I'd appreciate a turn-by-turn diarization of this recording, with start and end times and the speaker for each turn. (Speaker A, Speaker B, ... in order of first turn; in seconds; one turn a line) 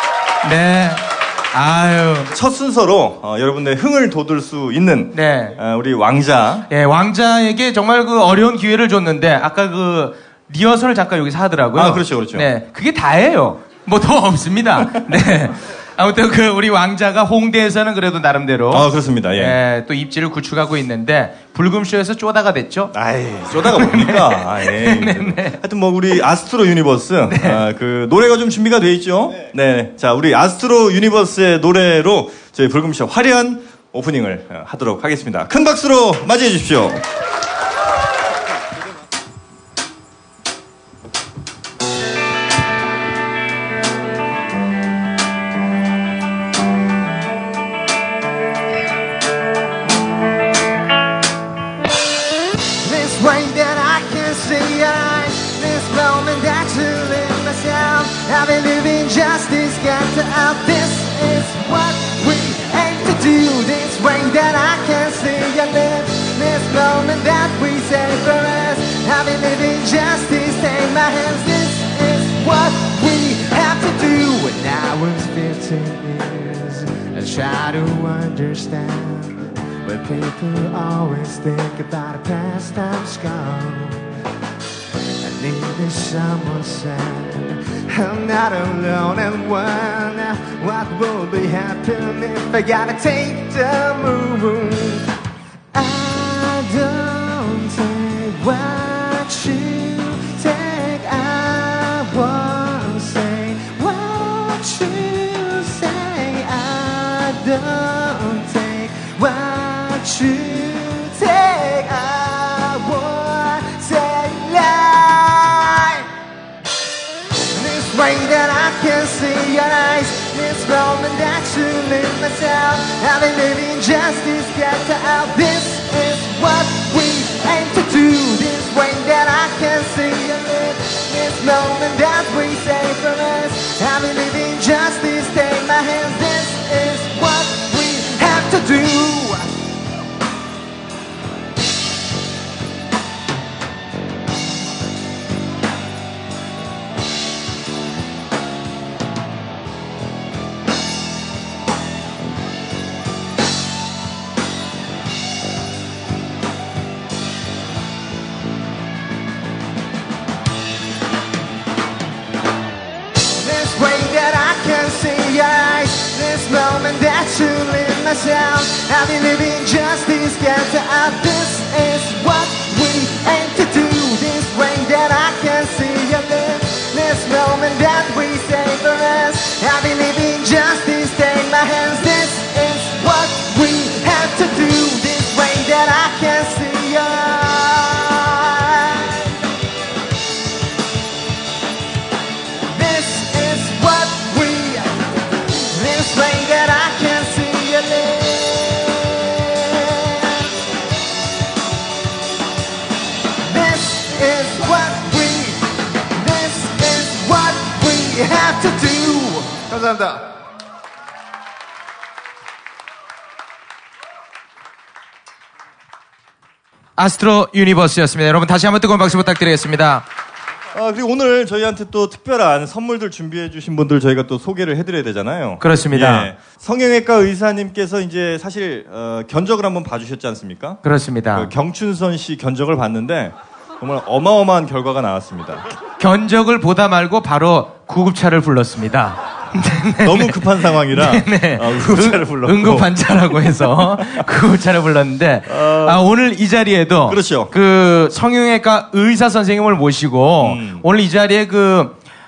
Speaker A: 0.4-2.3
Speaker B: 2.3-6.7
Speaker A: 5.1-5.6
Speaker A: 6.7-22.9
Speaker B: 11.8-12.5
Speaker B: 18.7-19.6
Speaker B: 22.9-37.0
Speaker A: 23.5-25.6
Speaker A: 27.3-27.6
Speaker C: 52.7-84.1
Speaker C: 85.2-95.1
Speaker C: 95.7-116.1
Speaker C: 117.5-139.5
Speaker C: 163.3-189.2
Speaker C: 192.7-195.0
Speaker C: 195.7-200.4
Speaker C: 203.4-210.2
Speaker A: 217.0-220.1
Speaker B: 220.7-230.8
Speaker A: 225.6-226.3
Speaker A: 230.8-231.5
Speaker B: 231.3-235.7
Speaker A: 236.0-252.0
Speaker B: 240.0-242.9
Speaker B: 245.5-246.0
Speaker B: 247.1-247.5
Speaker B: 250.4-250.8